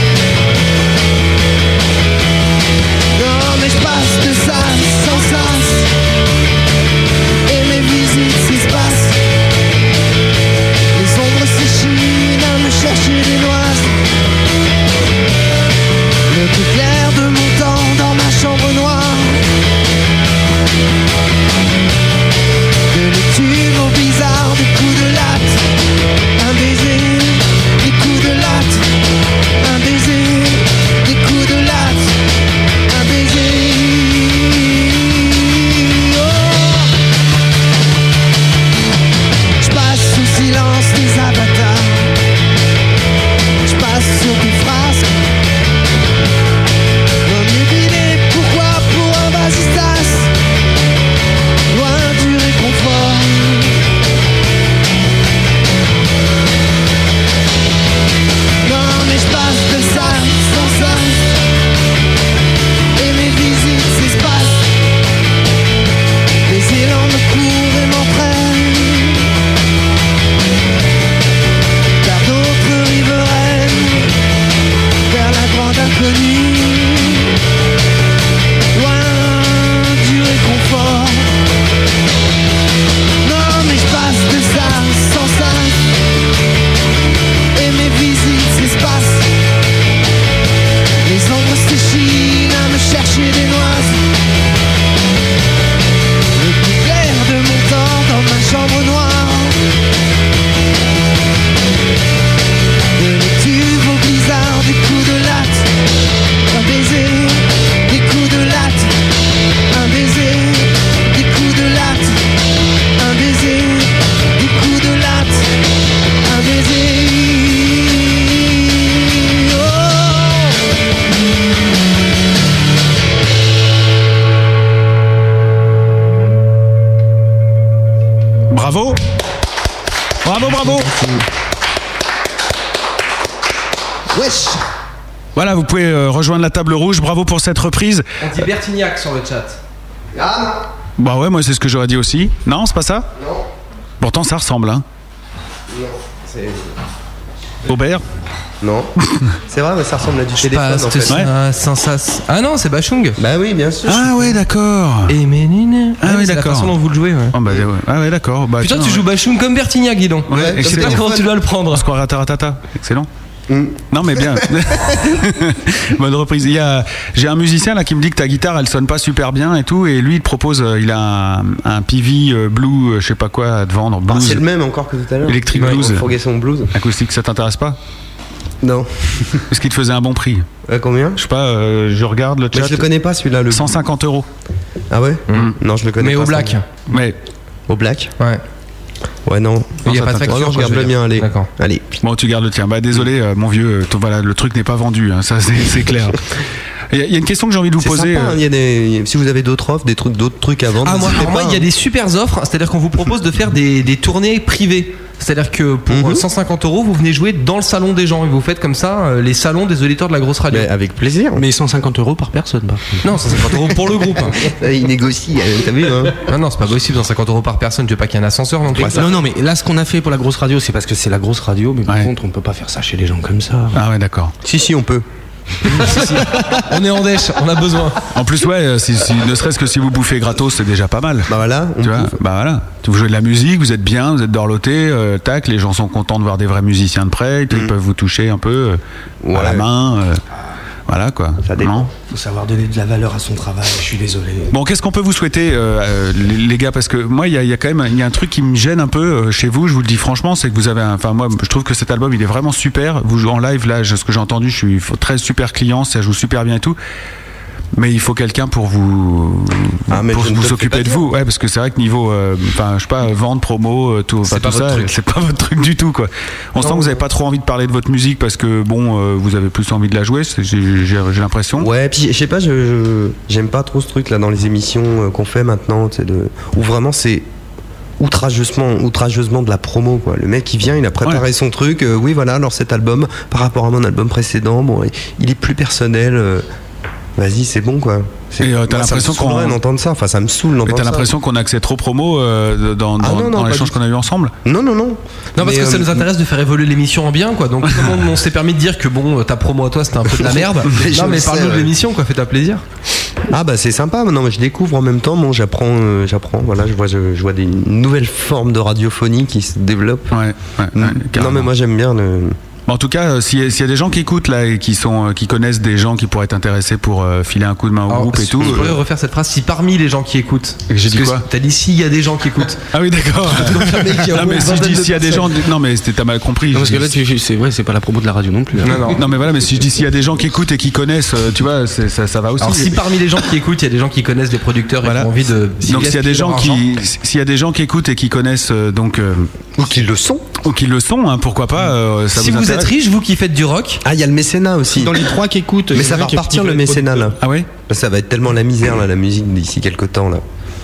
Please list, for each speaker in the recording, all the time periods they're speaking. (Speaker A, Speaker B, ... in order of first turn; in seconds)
Speaker A: 3.1-5.9, 7.5-9.2, 10.9-14.0, 16.3-19.4, 22.9-25.6, 26.4-28.9, 29.6-32.1, 32.9-36.9, 39.6-42.1, 43.6-45.3, 47.2-50.3, 51.7-53.8, 58.6-61.3, 63.0-64.7, 66.5-69.3, 72.0-74.2, 75.1-77.3, 78.7-81.4, 83.2-85.9, 87.5-89.3, 91.0-94.0, 96.3-99.6, 102.9-105.7, 106.5-108.9, 109.7-112.2, 113.0-115.5, 116.2-120.6, 134.1-134.6
Speaker B: 128.5-129.0, 130.2-131.0, 135.3-138.1, 141.0-143.1, 144.0-144.8, 147.7-148.0, 153.8-155.2, 156.0-156.8, 157.3-159.0, 160.3-161.1, 161.7-163.1, 163.9-174.4, 175.3-176.1, 176.7-177.8, 179.5-180.4, 181.2-182.9, 183.5-184.3, 186.9-187.2, 189.8-190.5, 192.0-196.2, 196.9-198.4, 223.7-224.3, 228.1-238.8, 239.3-240.2, 240.9-241.9, 244.5-256.8, 257.8-271.7, 288.4-289.6, 290.7-294.3, 310.1-311.5, 312.7-318.8, 320.7-321.3, 322.7-327.0, 329.0-332.8, 334.8-339.6, 340.4-342.7, 347.2-347.5
Speaker C: 138.2-139.6, 150.4-153.2, 155.1-157.3, 158.6-161.8, 185.3-186.7, 189.8-191.5, 200.8-210.7, 213.0-214.5, 216.2-219.1, 225.7-228.0, 264.3-264.9, 295.4-302.6, 317.9-322.6, 323.3-325.3, 328.6-329.0, 332.4-336.6, 342.1-343.8
Speaker D: 140.1-140.6, 143.2-143.4, 145.7-146.7, 148.6-148.9, 149.4-151.2, 153.2-154.4, 160.3-161.3, 163.5-164.4, 174.1-176.7, 178.6-179.4, 180.7-181.2, 182.5-183.8, 184.9-186.6, 187.7-188.1, 189.3-191.9, 197.8-201.7, 205.9-206.2, 210.5-211.4, 214.4-216.2, 224.4-225.1, 231.3-232.2, 239.2-239.7, 241.4-241.9, 259.9-261.1, 266.6-267.0, 271.6-277.3, 278.0-286.4, 287.2-291.1, 293.0-293.8, 294.4-296.1, 300.2-301.7, 303.3-310.2, 310.8-312.4, 339.6-340.2, 343.8-345.1, 345.7-350.2
Speaker E: 211.3-213.4, 218.8-223.8, 242.0-244.5, 326.5-328.9, 344.7-347.1